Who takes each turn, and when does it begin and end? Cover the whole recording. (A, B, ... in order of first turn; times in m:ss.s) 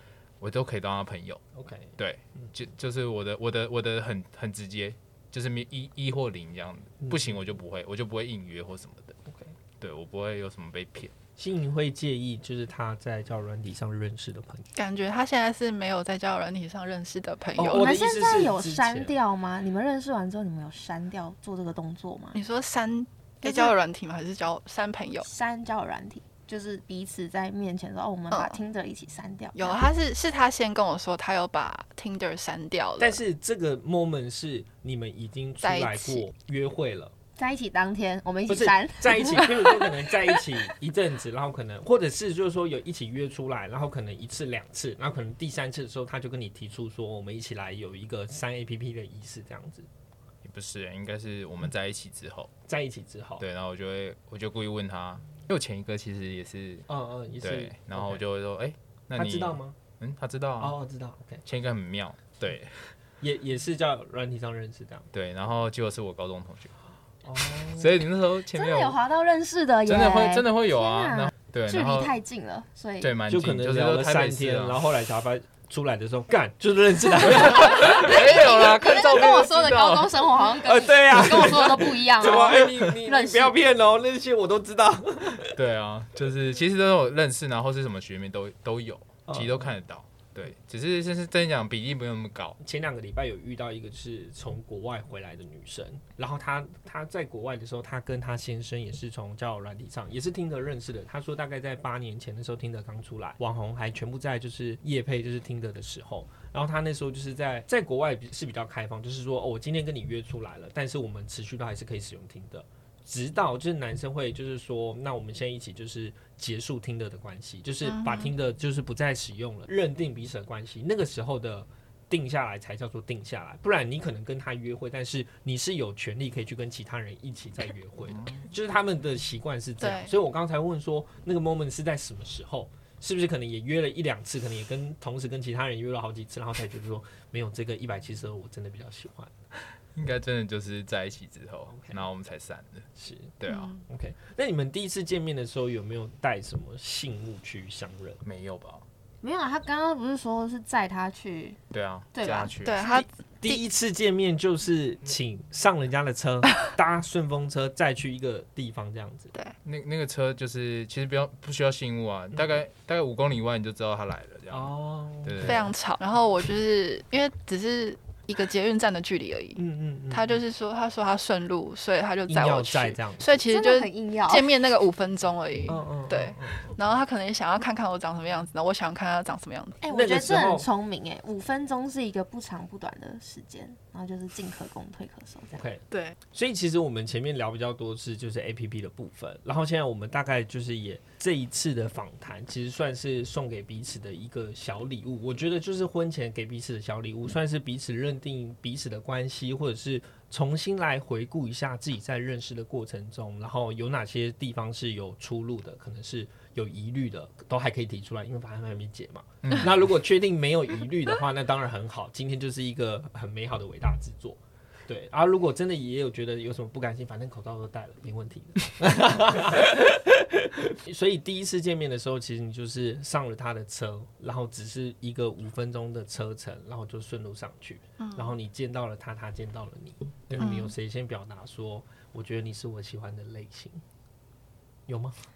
0:00.4-0:01.4 A
0:01.5-0:02.5 B
0:02.0-0:09.2 A
0:09.2-0:09.5 B
0:09.8-0:11.1 A
0:11.4-0:14.7 B
0:14.8-0:18.0 C
0:17.6-0:19.1 B
0:17.7-0:22.4 D
0:22.3-0:25.3 C
0:25.2-0:29.8 D
0:28.3-0:28.6 C
0:29.5-0:33.2 C
0:33.0-0:37.1 B
0:35.6-0:36.3 C
0:37.4-0:39.7 D
0:38.5-0:49.9 B
0:50.4-0:52.5 A
0:52.7-0:53.4 B
0:53.4-0:56.9 A
0:56.9-0:58.2 B
0:57.4-1:00.7 A
0:59.2-0:59.8 B
1:00.6-1:01.4 B
1:01.4-1:02.9 A
1:03.2-1:05.1 B
1:05.1-1:06.7 A
1:07.2-1:08.0 B
1:07.6-1:09.0 A
1:08.5-1:13.1 D
1:09.8-1:12.1 A
1:13.0-1:14.8 A
1:13.3-1:18.1 B
1:17.3-1:20.5 A
1:17.5-1:23.6 D
1:20.6-1:25.6 B
1:22.3-1:22.7 A
1:25.5-1:32.6 A
1:29.3-1:29.7 B
1:32.6-2:19.3 B
1:57.8-1:58.3 C
2:08.1-2:08.4 A
2:09.8-2:10.1 C
2:19.9-2:22.9 A
2:21.7-2:22.0 B
2:23.0-2:28.2 B
2:23.4-2:23.7 A
2:23.4-2:23.8 C
2:28.2-2:28.8 A
2:29.2-2:31.6 D
2:31.7-2:32.8 A
2:32.1-2:32.5 D
2:32.6-2:33.6 C
2:32.9-2:39.3 B
2:39.6-2:45.7 A
2:44.5-2:45.7 B
2:45.4-2:59.8 C
2:49.6-2:50.4 B
2:52.3-2:53.3 B
2:53.5-2:54.5 D
2:55.7-2:56.8 B
2:59.8-3:05.6 D
2:59.9-3:00.7 B
3:05.5-3:53.8 B
3:05.9-3:06.2 C
3:29.4-3:29.7 A
3:48.0-3:48.3 C
3:50.3-3:50.6 A
3:50.4-3:50.7 C
3:54.9-3:55.2 B